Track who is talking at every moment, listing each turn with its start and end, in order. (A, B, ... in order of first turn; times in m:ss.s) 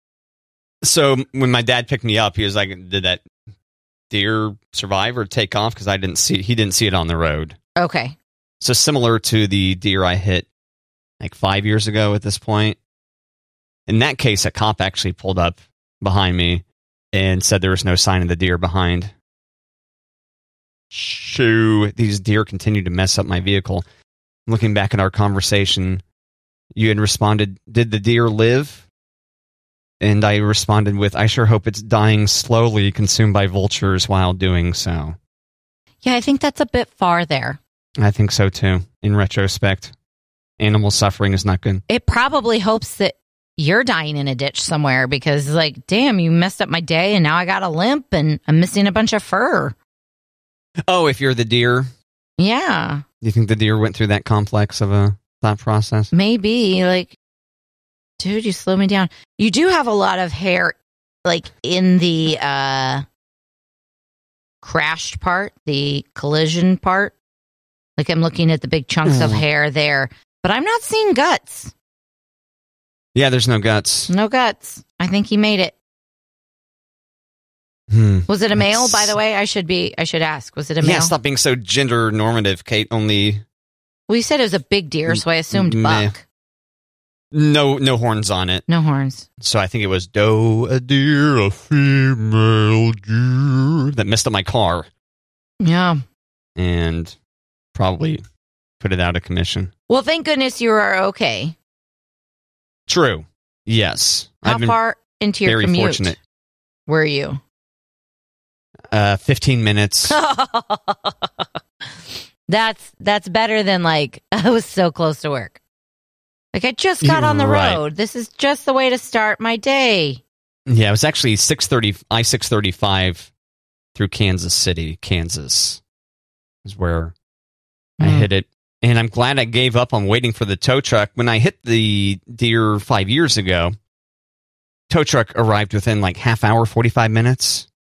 0:00.8-0:03.2 A
0:04.1-0:07.6 A
0:07.8-0:08.2 B
0:08.6-0:10.5 A
0:11.2-0:12.8 A
0:13.9-0:19.1 A
0:20.9-0:23.8 A
0:24.5-0:26.0 A
0:26.7-0:28.9 A
0:30.0-0:35.2 A
0:36.0-0:37.6 B
0:38.0-0:40.0 A
0:40.6-0:41.8 A
0:41.9-0:49.8 B
0:50.9-0:51.9 A
0:52.4-0:53.0 B
0:53.2-0:56.1 A
0:56.1-0:57.2 B
0:58.2-1:03.0 B
1:04.6-1:07.2 B
1:08.0-1:11.7 B
1:09.0-1:09.4 A
1:13.2-1:14.1 A
1:14.1-1:15.8 B
1:17.9-1:19.2 A
1:18.3-1:21.2 B
1:20.8-1:23.4 A
1:24.1-1:26.2 B
1:25.1-1:26.1 A
1:27.3-1:28.6 A
1:28.7-1:29.3 B
1:29.4-1:34.9 A
1:35.6-1:36.0 B
1:36.6-1:37.2 A
1:37.8-1:38.2 A
1:38.8-1:39.7 A
1:39.9-1:41.6 B
1:42.9-1:44.8 A
1:44.4-1:46.2 B
1:45.4-1:46.2 A
1:46.9-1:47.4 B
1:48.9-1:50.2 A
1:50.1-1:55.6 B
1:56.5-2:00.2 B
1:57.0-1:57.8 A
2:00.7-2:03.3 A
2:04.0-2:05.8 A
2:06.6-2:07.2 A
2:08.0-2:08.3 B
2:08.0-2:13.8 A
2:14.9-2:17.7 A